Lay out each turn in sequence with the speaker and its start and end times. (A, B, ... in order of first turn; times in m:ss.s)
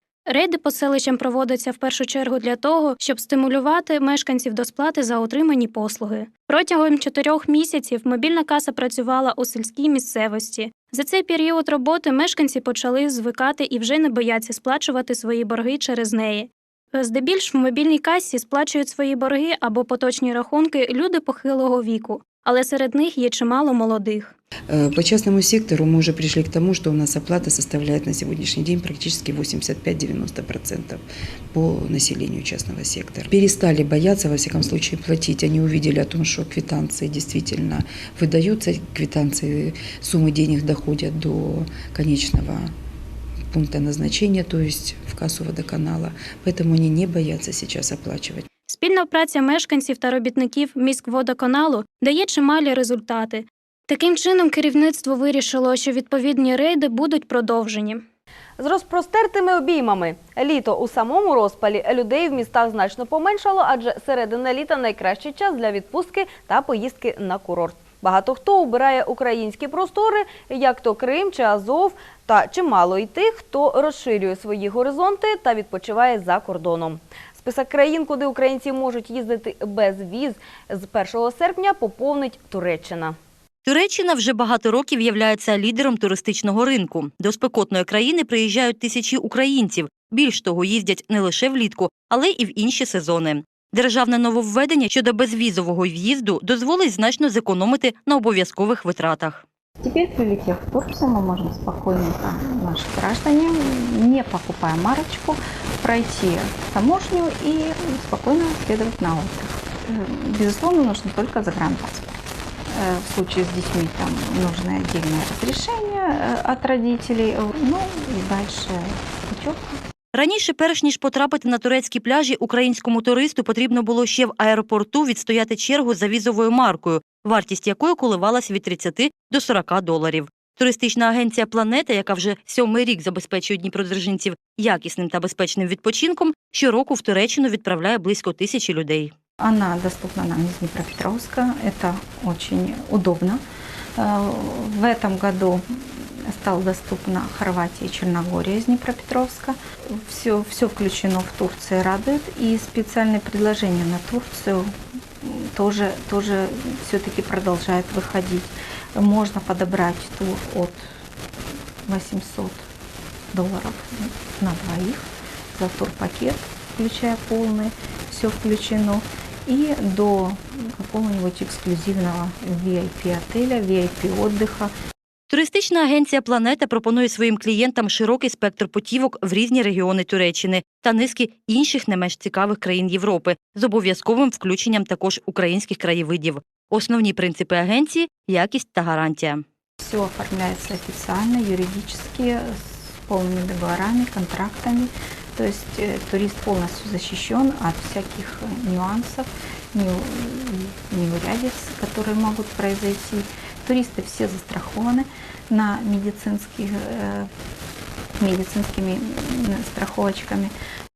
0:00.3-0:24.3 A
0:24.7-0:42.7 B
0:43.5-0:48.5 B
0:48.7-0:58.0 A
0:58.6-1:23.2 C
1:23.6-1:39.4 D
1:39.8-1:52.2 E
1:52.7-1:59.8 E
2:00.1-2:19.1 D
2:19.4-2:23.4 E
2:24.0-2:40.8 E
2:41.9-2:42.6 E
2:43.3-2:54.7 E
2:55.3-3:09.4 D
3:09.8-3:27.3 E
3:28.2-3:30.5 E